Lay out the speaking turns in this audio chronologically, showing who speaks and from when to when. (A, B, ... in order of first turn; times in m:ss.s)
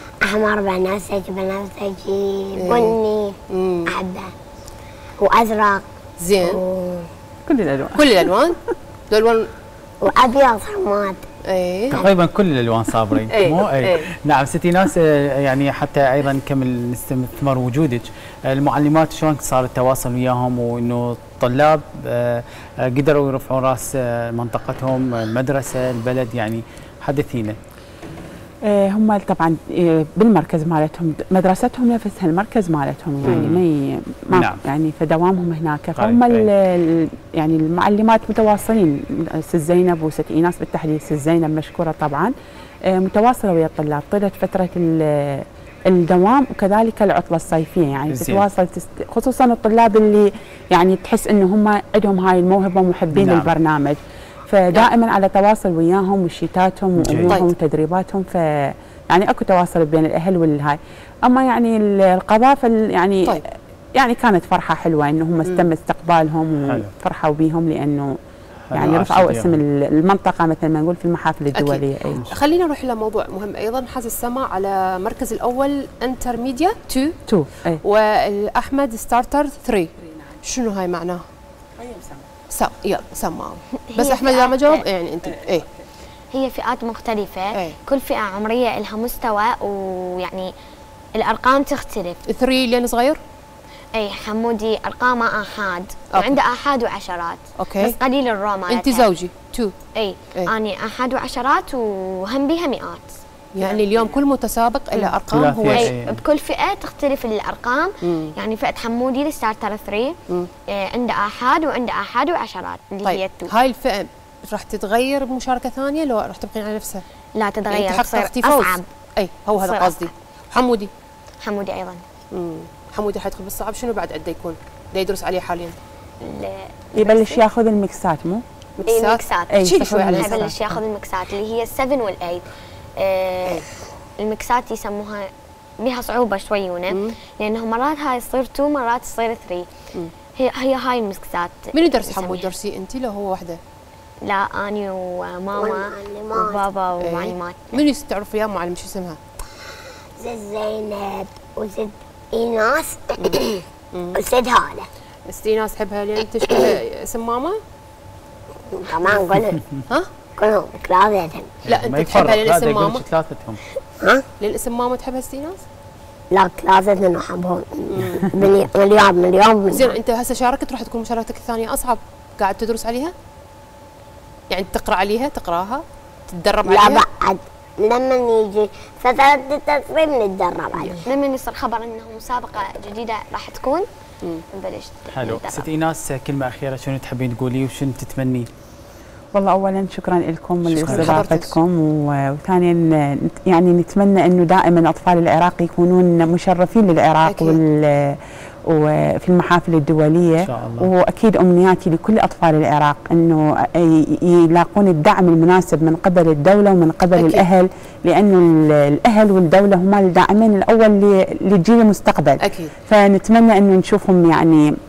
0:00.2-0:04.3 A
0:02.6-0:03.0 B
0:03.5-0:04.0 B
0:05.2-0:05.8 A
0:06.2-0:06.6 B
0:06.4-0:07.1 A
0:07.5-0:08.3 C
0:07.9-0:08.6 B
0:09.1-0:09.5 B
0:10.0-0:11.3 A
0:11.4-0:12.0 B
0:11.9-0:27.6 D
0:13.3-0:14.1 B
0:28.7-0:42.3 C
0:33.2-0:33.6 D
0:34.3-0:34.6 D
0:36.0-0:36.5 D
0:42.9-1:03.4 C
0:48.1-0:48.4 D
0:53.1-0:53.5 D
0:57.0-0:57.4 D
1:04.0-1:08.2 C
1:08.7-1:09.6 D
1:08.7-1:12.3 C
1:11.5-1:17.2 B
1:17.3-1:17.8 C
1:17.8-1:21.2 B
1:21.8-1:22.2 C
1:22.5-1:25.7 B
1:23.9-1:24.8 E
1:26.3-1:30.5 E
1:31.2-1:32.2 E
1:32.3-1:33.2 B
1:34.0-1:39.1 E
1:37.6-1:38.0 B
1:38.7-1:39.8 B
1:40.0-1:43.1 E
1:43.6-1:45.9 B
1:45.3-1:46.2 D
1:45.7-1:50.2 E
1:48.0-1:48.4 B
1:50.7-1:53.5 E
1:53.0-1:57.0 B
1:57.4-1:58.8 E
1:57.7-2:00.9 B
1:59.6-2:00.0 E
2:01.4-2:02.0 E
2:02.3-2:05.8 B
2:06.2-2:07.4 E
2:07.0-2:08.4 C
2:08.8-2:10.5 B
2:08.9-2:12.5 E
2:09.5-2:10.7 C
2:13.0-2:13.7 E
2:14.2-2:19.7 E
2:20.4-2:22.5 E
2:21.7-2:23.6 B
2:24.2-2:27.8 E
2:25.6-2:26.6 A
2:27.0-2:29.2 B
2:29.7-2:34.9 A
2:33.9-2:34.2 B
2:35.3-2:37.6 B
2:38.7-2:39.6 A
2:40.4-2:41.6 A
2:41.6-2:43.6 D
2:41.7-2:43.0 B
2:44.0-2:44.2 A
2:44.4-2:45.6 B
2:46.3-2:50.0 A
2:47.9-2:48.3 B
2:49.7-2:53.1 B
2:54.5-2:57.0 B
2:56.7-3:01.0 A
3:01.0-3:03.9 E
3:04.5-3:05.7 E
3:05.1-3:08.5 D
3:09.3-3:18.2 C
3:10.7-3:11.6 B
3:10.8-3:11.2 D
3:17.3-3:17.6 B
3:18.7-3:34.7 C
3:20.4-3:20.9 D
3:27.2-3:27.5 B
3:32.4-3:32.7 B